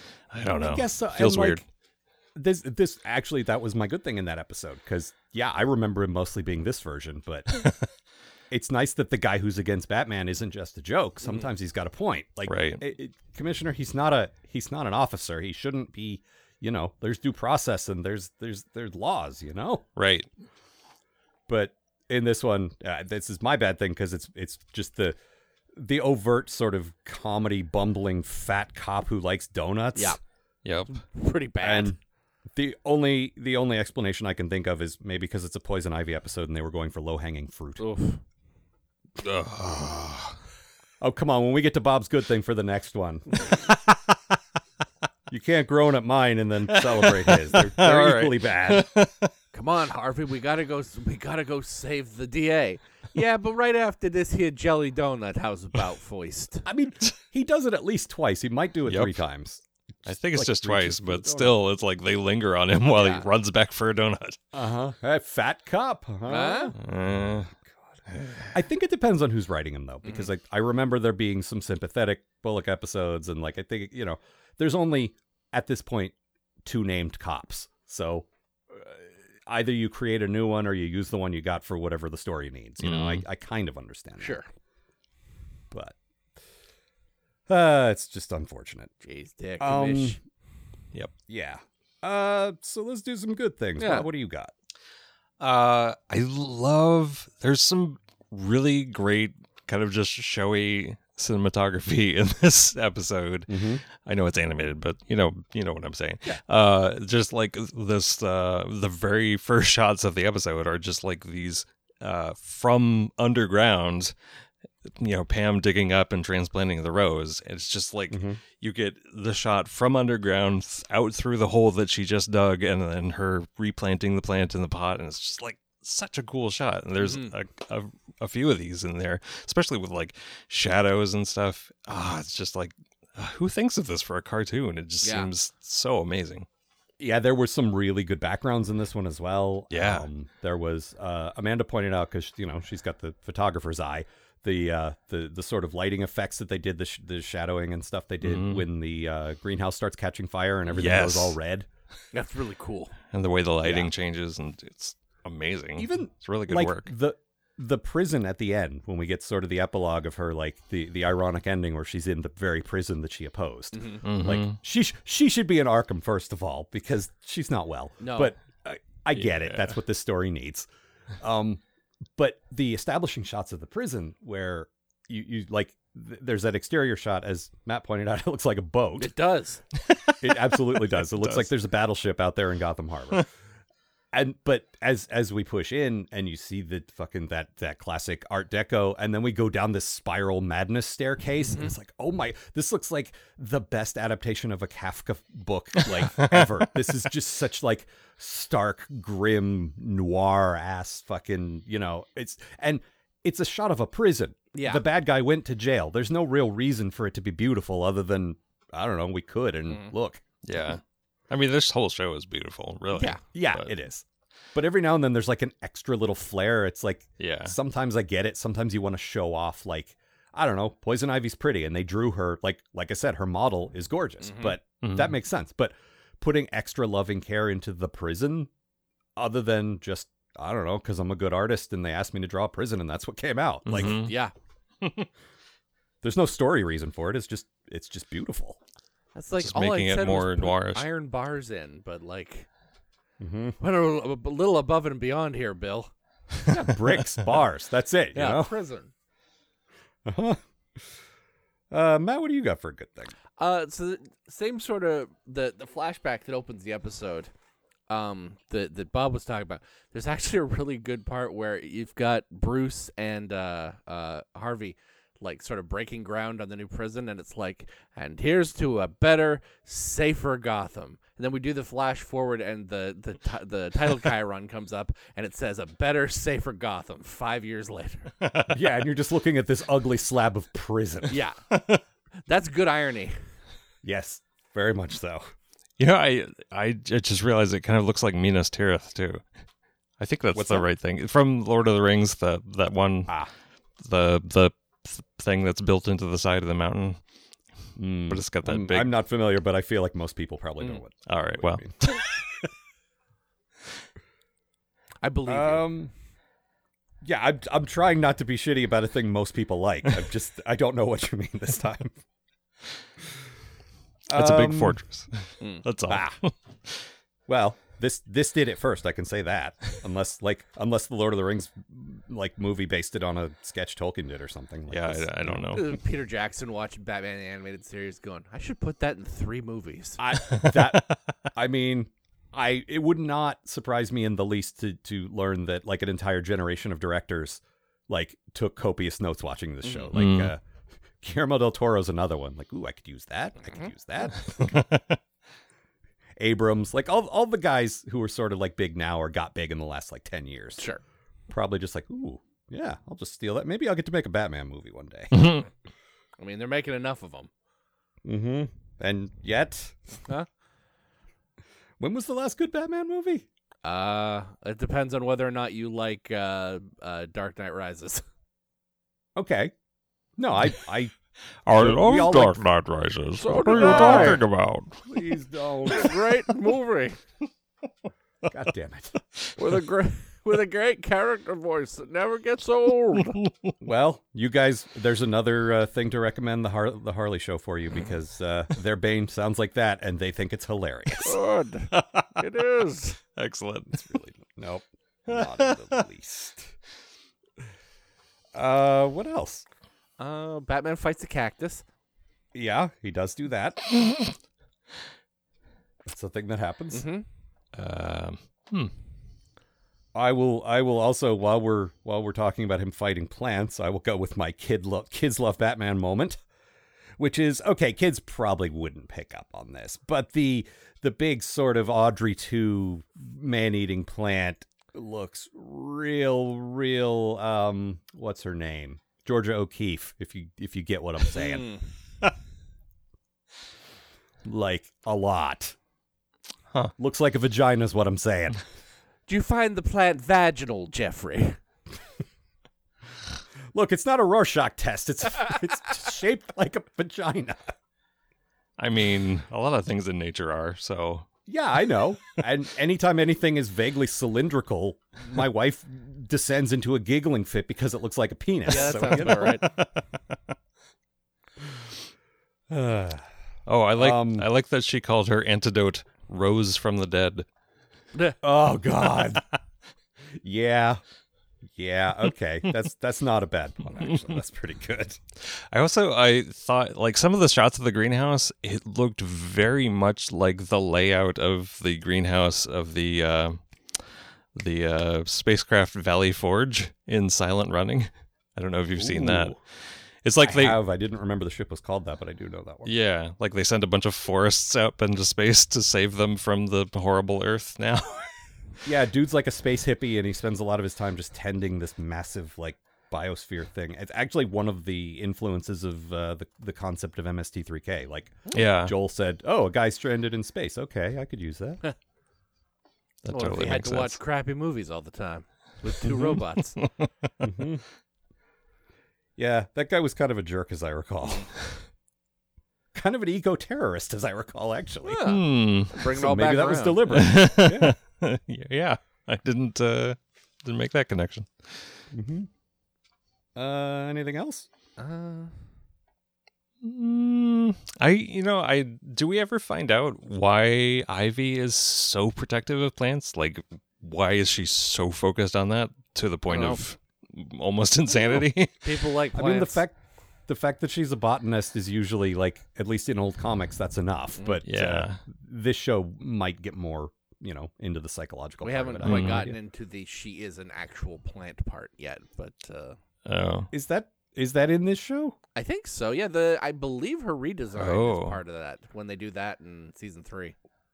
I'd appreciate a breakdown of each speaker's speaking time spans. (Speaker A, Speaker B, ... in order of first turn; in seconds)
Speaker A: 0.3-1.6, 12.5-12.8, 20.0-20.3, 30.6-31.0, 39.2-40.4, 46.7-49.3, 58.9-59.2, 60.1-64.4, 66.8-67.5, 68.1-68.5, 82.8-83.2, 95.4-114.1, 114.9-136.5, 139.7-140.1, 148.2-148.7, 150.7-151.4, 153.1-156.9, 164.0-164.6, 169.2-169.7, 179.9-181.5, 195.8-196.5, 210.4-213.7, 217.2-217.6, 224.8-225.1, 233.7-234.1, 239.4-240.9, 278.2-278.6, 281.5-281.8, 285.8-289.2, 290.0-293.1, 293.8-297.0, 298.1-298.9, 301.1-302.2, 314.1-316.8, 324.7-325.8, 330.3-330.9, 339.9-340.3, 344.4-345.0, 355.1-355.4, 371.4-374.9, 383.2-383.5, 391.7-392.2, 393.1-394.0, 395.1-395.8, 407.6-408.7, 448.6-451.1, 458.5-459.7, 463.5-467.3, 475.2-483.8, 484.4-489.4, 490.0-490.6, 492.6-498.1, 508.3-508.7, 513.0-514.0, 515.9-516.9, 525.0-525.8, 526.9-531.7, 536.6-548.5, 554.5-555.0, 558.8-559.3, 563.1-563.5, 567.6-568.2
Speaker B: 0.6-1.6, 2.4-7.6, 8.5-19.9, 21.5-25.2, 25.7-30.2, 31.6-32.0, 32.5-37.8, 41.0-44.2, 45.3-48.9, 56.6-61.6, 64.5-66.8, 68.5-84.4, 85.7-86.0, 87.5-88.9, 89.6-90.2, 91.3-94.5, 103.5-103.8, 118.1-118.4, 137.0-151.7, 153.6-153.9, 155.8-170.7, 171.2-171.6, 172.2-179.1, 180.2-183.3, 184.1-210.2, 213.2-228.5, 229.2-234.0, 236.0-238.6, 243.2-243.6, 246.5-248.5, 250.1-250.4, 251.7-253.1, 278.5-281.2, 283.8-285.3, 290.3-290.7, 297.8-302.0, 305.3-305.9, 307.0-312.0, 314.1-314.8, 315.9-316.2, 317.3-325.6, 330.0-340.4, 341.0-344.6, 346.2-350.6, 351.3-355.4, 358.0-360.0, 361.8-363.3, 369.2-369.5, 370.2-370.9, 371.5-372.4, 373.4-374.2, 374.9-376.0, 378.3-379.0, 383.6-391.2, 393.8-396.5, 398.3-399.5, 402.3-403.7, 405.9-406.9, 409.9-416.2, 417.0-431.5, 434.2-435.6, 436.8-438.4, 443.5-447.5, 451.3-459.4, 462.5-463.1, 463.8-464.3, 468.2-469.2, 470.2-470.8, 471.5-475.0, 488.8-489.4, 490.2-492.7, 498.6-511.6, 517.2-517.6, 519.2-521.3, 522.7-525.2, 525.9-527.8, 531.9-532.3, 533.4-534.5, 549.1-549.8, 550.3-559.4, 563.5-565.2
Speaker C: 30.9-32.0, 37.8-38.2, 49.5-56.7, 63.0-63.3, 66.3-66.8, 84.2-84.5, 89.0-90.2, 93.8-94.1, 127.0-127.3, 135.0-135.3, 152.1-152.9, 163.7-164.0, 168.0-168.3, 179.0-179.6, 191.5-191.7, 204.5-204.8, 212.9-213.2, 224.2-224.6, 233.8-234.3, 239.2-242.5, 243.6-245.9, 248.1-248.9, 253.4-257.3, 257.9-278.1, 281.1-281.4, 282.3-283.2, 305.0-305.7, 325.5-330.0, 339.6-339.9, 343.4-343.7, 356.2-357.3, 363.6-368.0, 373.2-374.2, 375.6-377.0, 379.4-383.2, 391.0-393.0, 400.0-401.6, 406.7-407.1, 431.1-431.6, 439.1-441.4, 458.5-459.5, 513.1-516.6, 524.8-527.0, 534.8-535.3, 546.3-546.6, 548.1-549.6, 558.4-562.8, 565.4-570.4